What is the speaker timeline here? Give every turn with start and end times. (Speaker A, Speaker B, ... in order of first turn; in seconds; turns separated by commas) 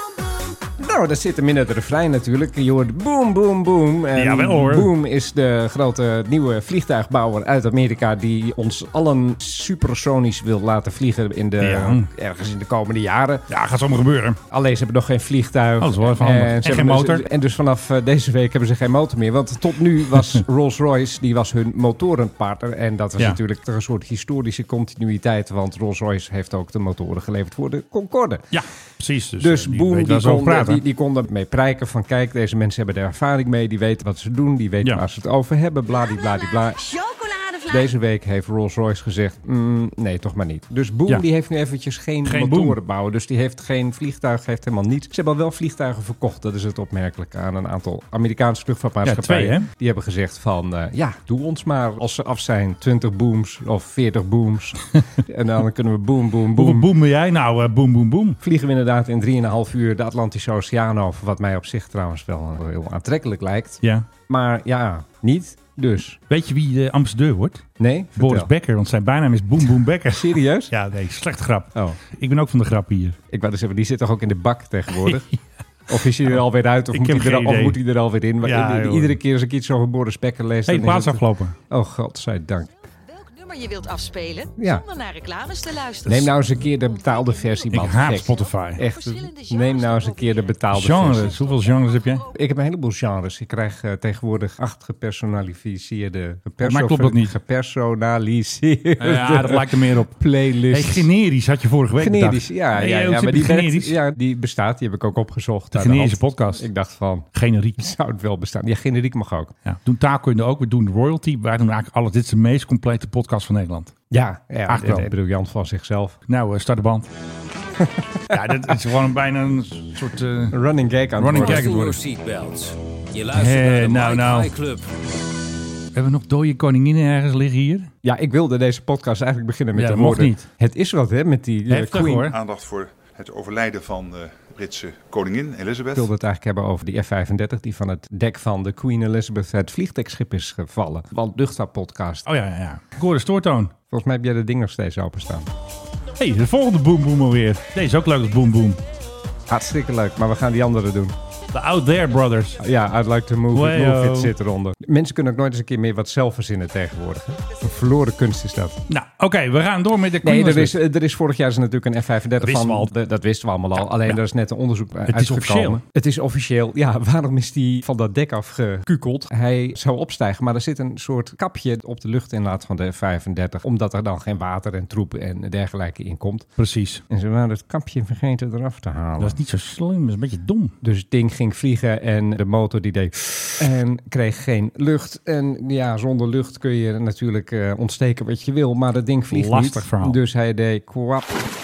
Speaker A: 0.8-13.5, Speaker B: 4.1-4.9, Speaker B: 11.6-12.1, Speaker B: 13.5-14.4, Speaker A: 14.5-28.4, Speaker B: 15.8-17.3, Speaker B: 28.5-30.8, Speaker A: 29.4-36.8, Speaker C: 36.7-37.9, Speaker A: 37.7-56.9, Speaker B: 42.2-42.8, Speaker B: 49.0-49.7, Speaker B: 56.5-58.4, Speaker A: 58.4-66.2, Speaker B: 63.8-64.1, Speaker B: 66.3-73.2, Speaker A: 67.8-68.5, Speaker A: 70.1-70.7, Speaker A: 71.7-72.0, Speaker A: 73.3-75.3, Speaker B: 75.0-75.4, Speaker A: 75.9-82.7, Speaker B: 76.9-77.8, Speaker B: 78.4-79.2, Speaker B: 80.7-81.5, Speaker C: 83.1-86.1, Speaker A: 84.6-84.9, Speaker A: 86.0-91.4, Speaker C: 87.0-87.8, Speaker B: 87.7-88.9, Speaker C: 89.0-90.2, Speaker B: 90.7-92.3, Speaker A: 92.3-101.1, Speaker B: 96.6-97.3, Speaker B: 99.0-104.0, Speaker A: 102.0-107.3, Speaker B: 105.7-106.7, Speaker B: 107.3-107.9, Speaker A: 107.8-109.5, Speaker B: 109.7-113.9, Speaker A: 114.1-116.2, Speaker B: 114.7-115.1, Speaker B: 116.3-117.1, Speaker A: 117.8-118.7, Speaker B: 118.3-120.6, Speaker A: 120.5-121.7, Speaker B: 121.1-122.0, Speaker D: 121.3-124.9, Speaker B: 123.3-124.5, Speaker B: 125.9-127.9, Speaker A: 128.0-132.3, Speaker B: 129.7-130.5, Speaker B: 131.7-132.3, Speaker E: 132.3-136.1, Speaker A: 135.9-142.2, Speaker B: 142.2-143.7, Speaker A: 143.9-145.5, Speaker B: 146.2-148.8, Speaker A: 149.5-151.1, Speaker B: 151.5-152.6, Speaker A: 152.6-158.8, Speaker B: 153.5-154.3, Speaker B: 158.9-160.8, Speaker A: 160.2-176.5, Speaker B: 162.4-162.9, Speaker B: 163.9-164.2, Speaker B: 165.1-165.8, Speaker B: 176.6-177.0, Speaker A: 177.1-179.4, Speaker B: 179.2-180.8, Speaker A: 180.8-191.5, Speaker B: 189.3-190.2